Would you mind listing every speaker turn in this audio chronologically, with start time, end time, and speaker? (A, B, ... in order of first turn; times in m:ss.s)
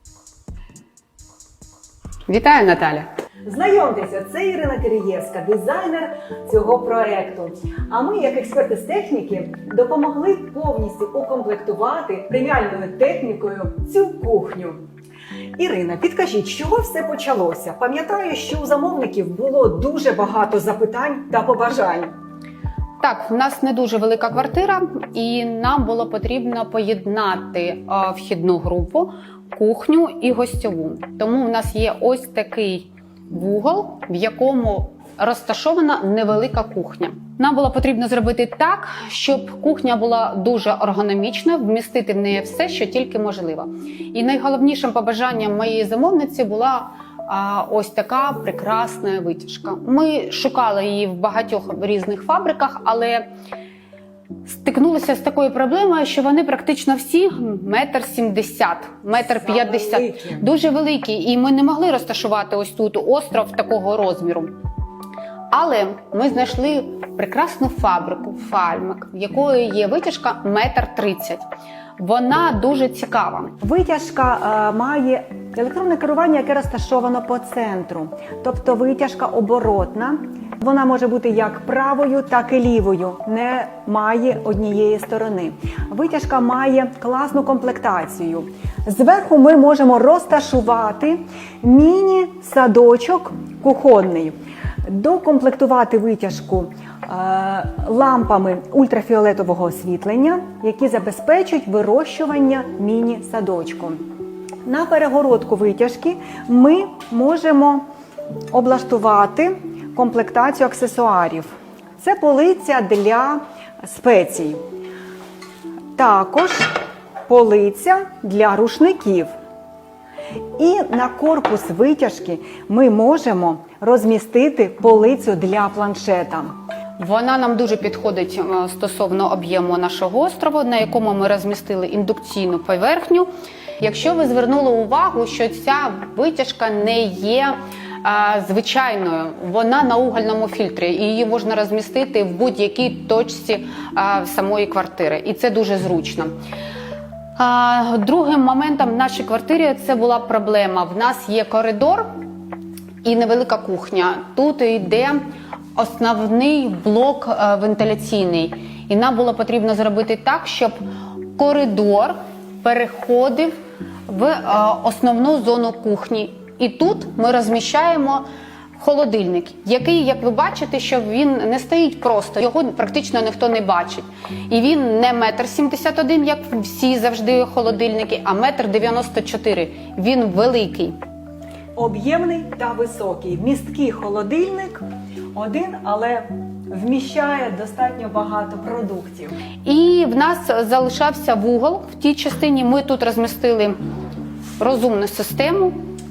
0:02.3-0:03.1 A
0:03.4-0:14.8 B
0:15.6-0:22.1 B
0:23.0-0:53.3 A
0:54.4-1:04.5 A
0:59.1-1:00.5 B
1:05.5-1:11.4 A
1:12.0-1:13.5 A
1:13.6-1:34.3 B
1:34.8-1:44.0 B
1:44.6-1:47.8 B
1:48.5-1:54.6 B
1:56.0-1:56.8 B
1:57.3-1:59.3 B
2:00.6-2:06.5 B
2:07.0-2:13.3 A
2:13.8-2:26.3 A
2:27.4-2:32.1 A
2:33.0-2:35.2 A
2:35.8-2:40.8 A
2:41.4-2:43.5 A
2:44.1-2:48.2 A
2:48.8-3:01.0 A
3:01.7-3:04.8 B
3:05.3-3:09.4 B
3:09.6-3:13.8 A
3:14.6-3:15.8 A